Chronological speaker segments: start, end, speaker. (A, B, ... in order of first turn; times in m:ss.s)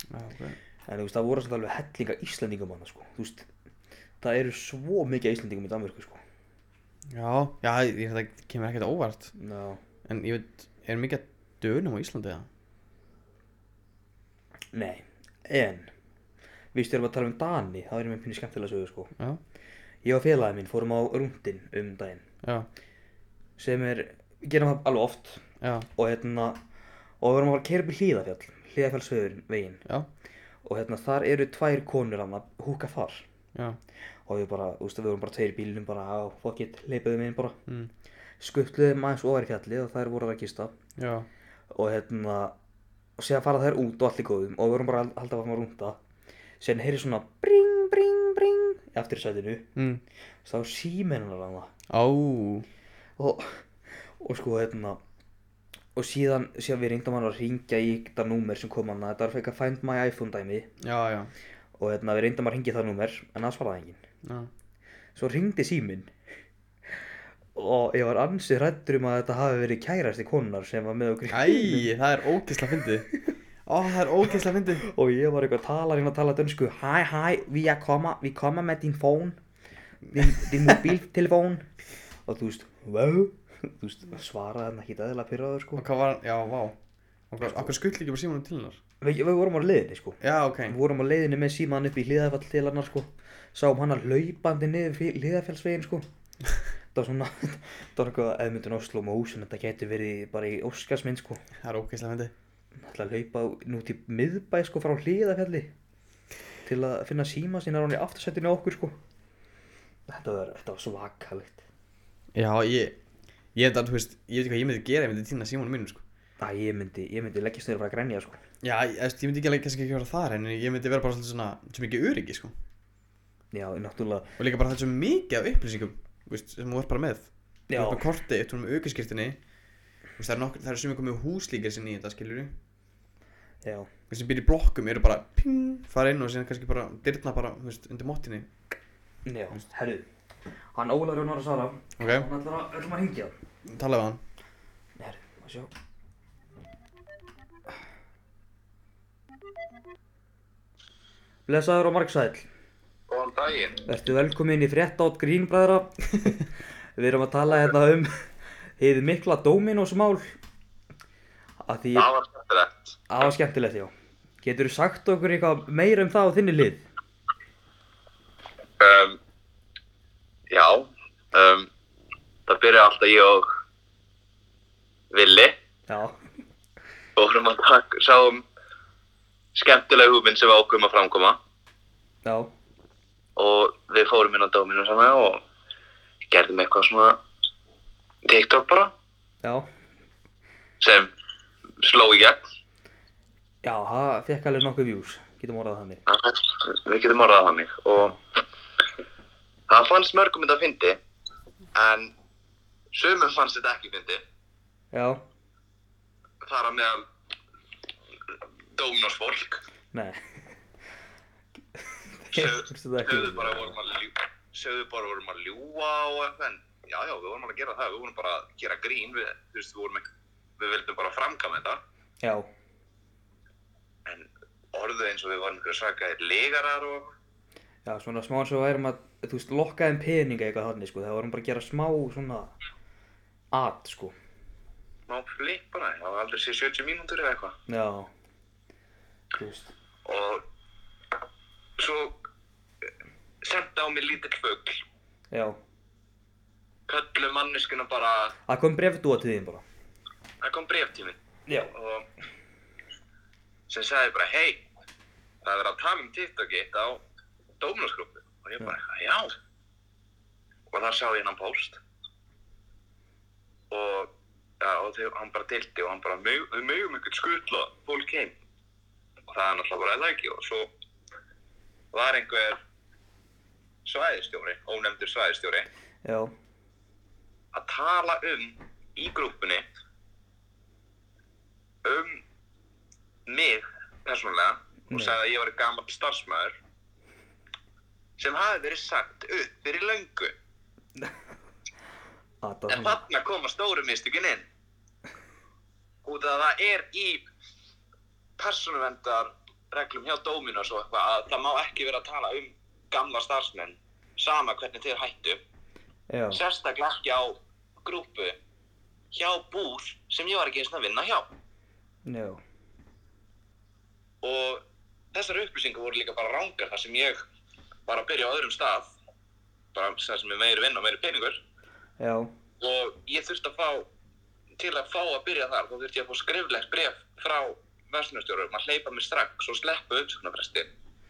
0:00.1-0:00.6 A
0:00.9-0:03.5 B
0:04.2-0:06.2 B
0:07.1-0:09.3 A
0:09.4-0:09.8 B
0:10.0-0:12.5 A
0:14.7-0:15.9 B
0:16.7-0:19.1 B
0:20.0-0:22.2 B
0:22.4-0:22.7 A
0:23.6-0:25.4 B
0:25.6-0:25.9 A
0:26.0-0:26.6 B
0:27.2-0:29.8 B
0:30.6-0:33.2 B
0:33.5-0:33.8 A
0:34.3-0:37.6 B
0:38.4-0:40.8 B
0:41.0-0:41.3 A
0:41.7-0:42.6 B
0:43.2-0:46.0 B
0:46.6-0:49.7 B
0:49.8-0:50.0 A
0:50.4-0:51.7 B
0:51.9-0:52.7 A
0:53.2-0:55.0 B
0:56.0-1:00.7 B
1:00.8-1:01.3 A
1:01.8-1:04.0 B
1:04.2-1:04.5 A
1:05.2-1:06.1 B
1:07.6-1:11.9 B
1:11.3-1:13.1 A
1:13.7-1:14.8 A
1:14.8-1:19.4 B
1:20.1-1:21.7 B
1:20.1-1:20.9 A
1:22.3-1:25.8 B
1:25.8-1:26.8 A
1:27.3-1:28.8 A
1:27.4-1:27.7 B
1:29.0-1:36.1 B
1:30.2-1:30.8 A
1:36.9-1:41.4 B
1:41.6-1:42.3 A
1:42.8-1:45.7 B
1:46.6-1:49.0 B
1:50.1-1:51.6 B
1:52.4-1:53.0 A
1:53.6-1:56.0 A
1:56.4-1:58.4 B
1:58.6-2:02.5 A
2:03.5-2:04.3 B
2:04.4-2:09.4 A
2:07.7-2:08.1 B
2:10.2-2:12.5 A
2:13.6-2:13.9 B
2:14.1-2:18.5 A
2:19.2-2:20.1 B
2:20.8-2:23.3 B
2:22.0-2:22.3 A
2:23.7-2:24.2 A
2:25.0-2:25.7 B
2:31.5-2:32.5 B
2:33.1-2:33.8 C
2:33.9-2:36.5 B
2:37.0-2:40.4 B
2:41.6-2:42.1 B
2:42.0-2:43.0 C
2:43.1-2:46.9 B
2:48.8-2:49.2 C
2:50.5-2:51.7 C
2:52.5-2:53.5 C
2:55.1-2:55.5 C
2:55.9-2:56.2 B
2:57.2-2:58.4 C
2:59.6-3:01.4 C
3:02.2-3:02.5 B
3:03.4-3:05.4 C
3:06.3-3:07.2 C
3:08.2-3:08.9 C
3:09.4-3:09.7 B
3:10.8-3:11.1 C
3:11.8-3:12.4 C
3:13.6-3:16.0 B
3:16.1-3:18.2 C
3:19.7-3:21.0 C
3:21.7-3:22.1 C
3:22.9-3:24.2 C
3:24.9-3:25.2 B
3:26.4-3:27.1 C
3:28.3-3:29.6 C
3:29.9-3:30.2 B
3:31.8-3:33.8 B
3:32.3-3:40.0 C
3:40.6-3:41.8 C
3:42.2-3:42.5 B
3:44.1-3:47.1 C
3:47.8-3:52.5 B
3:53.5-3:54.2 B
3:55.1-3:57.6 C
3:57.7-3:58.1 B
3:59.4-3:59.7 B
4:00.0-4:00.4 C
4:01.8-4:02.3 C
4:03.4-4:04.8 C
4:05.3-4:05.6 B
4:06.9-4:08.3 C
4:08.5-4:09.6 B
4:10.4-4:11.2 C
4:11.5-4:11.7 B
4:11.7-4:12.1 C
4:13.7-4:14.6 C
4:15.4-4:17.0 C
4:17.6-4:19.4 C
4:20.7-4:21.8 C
4:23.7-4:28.3 C
4:29.3-4:30.7 C
4:31.9-4:32.6 C
4:33.8-4:35.7 C
4:36.0-4:36.3 B
4:37.5-4:39.6 C
4:41.8-4:42.2 C
4:43.3-4:46.6 C
4:44.9-4:45.2 B
4:48.2-4:50.3 C
4:52.4-4:53.0 B
4:52.7-4:54.5 C
4:56.0-4:57.2 C
4:58.4-5:05.4 C
5:06.1-5:06.4 B
5:06.3-5:08.4 C
5:09.1-5:11.3 C
5:12.0-5:12.4 B
5:14.2-5:14.6 C
5:15.1-5:17.2 C
5:17.9-5:18.9 C
5:19.7-5:21.4 C
5:22.0-5:22.3 B
5:22.6-5:23.9 C
5:24.6-5:30.7 C